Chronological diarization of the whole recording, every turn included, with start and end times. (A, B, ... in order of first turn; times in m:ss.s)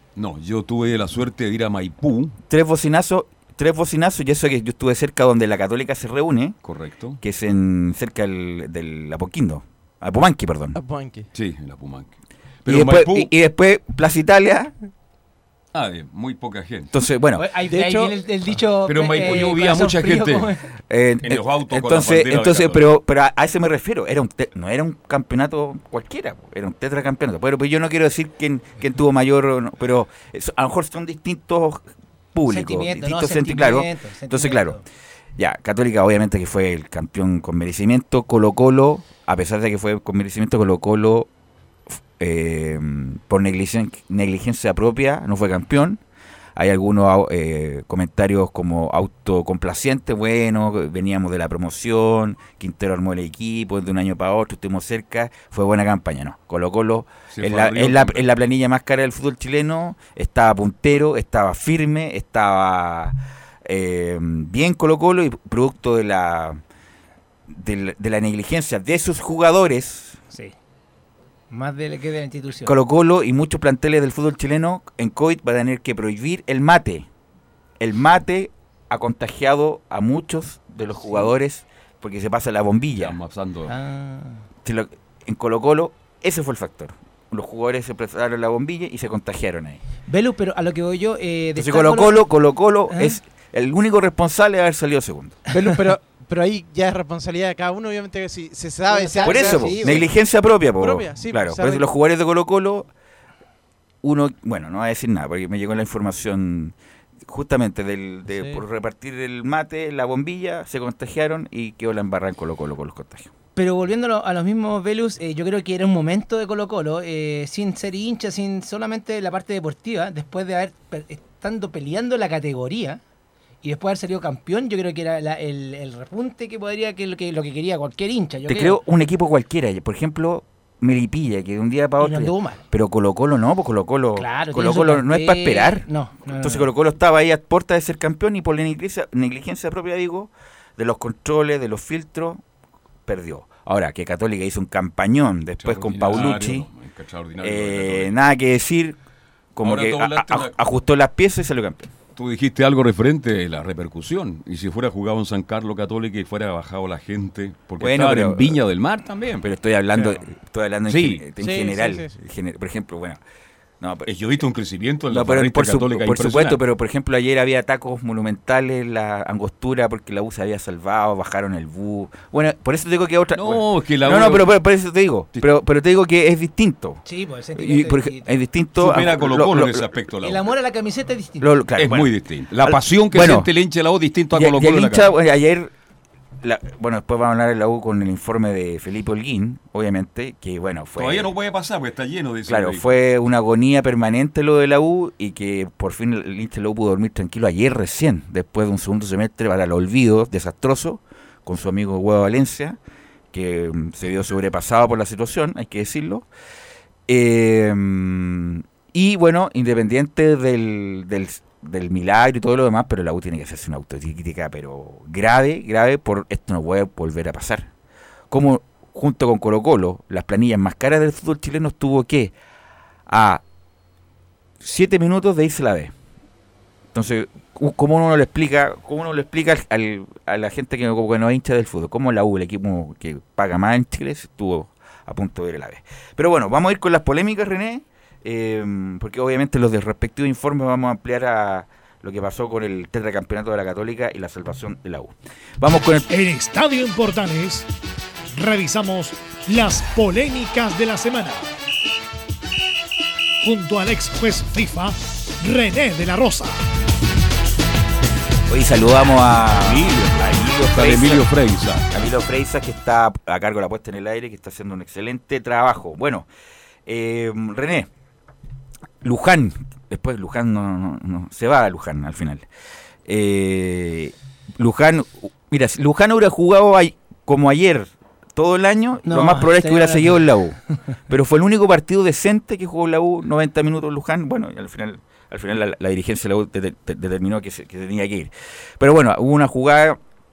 0:00.2-0:02.4 A
0:02.5-0:06.6 B
0:06.6-0:07.2 A
0:07.2-0:10.8 B
0:10.7-0:11.3 C
0:11.3-0:12.1 A
0:12.6-0:13.3 A
0:12.7-0:14.7 B
0:15.7-0:16.9 A
0:16.9-0:17.4 B
0:17.4-0:20.6 D
0:17.7-0:18.1 C
0:18.9-0:20.5 A
0:20.9-0:34.8 B
0:21.2-0:22.8 A
0:32.5-0:34.8 D
0:35.4-0:41.3 B
0:41.9-0:46.0 B
0:46.6-1:06.6 B
0:57.3-0:58.2 A
1:07.5-1:10.2 B
1:11.5-1:12.8 D
1:12.6-1:17.1 B
1:17.8-1:23.2 B
1:23.0-1:23.8 A
1:23.7-1:24.4 D
1:24.6-1:29.8 B
1:30.1-1:32.2 D
1:31.6-1:35.4 B
1:32.9-1:33.2 D
1:35.5-1:40.1 C
1:38.9-1:40.1 D
1:39.2-1:42.9 B
1:40.8-1:41.9 C
1:44.0-1:53.3 B
1:48.3-1:48.6 C
1:53.6-2:03.0 D
2:03.6-2:08.8 D
2:08.5-2:22.4 B
2:12.0-2:12.6 D
2:14.2-2:16.7 D
2:23.1-2:26.7 B
2:25.6-2:28.1 A
2:27.4-2:29.0 B
2:29.6-2:31.9 B
2:29.6-2:30.6 A
2:32.1-2:39.5 A
2:37.8-2:38.6 B
2:39.4-2:43.2 B
2:40.9-2:41.3 A
2:41.4-2:42.2 C
2:43.8-2:44.1 B
2:44.1-2:46.6 A
2:45.1-2:57.0 B
2:53.4-2:54.5 A
2:57.1-2:58.3 D
2:57.6-2:59.9 B
2:58.8-3:00.5 A
3:00.2-3:01.5 D
3:01.4-3:03.5 B
3:01.8-3:05.1 A
3:04.3-3:05.7 B
3:06.4-3:11.3 B
3:11.0-3:12.9 A
3:12.5-3:22.8 B
3:23.3-3:26.3 B
3:27.1-3:37.7 B
3:38.3-3:42.3 B
3:43.1-3:43.4 B
3:44.6-3:45.9 B
3:46.9-4:06.1 B
4:06.1-4:07.7 E
4:08.3-4:11.5 E
4:13.4-4:16.6 E
4:18.5-4:21.3 B
4:19.6-4:21.9 A
4:21.9-4:26.3 B
4:26.9-4:27.9 B
4:29.0-4:32.5 B
4:33.1-4:50.0 B
4:39.1-4:40.3 D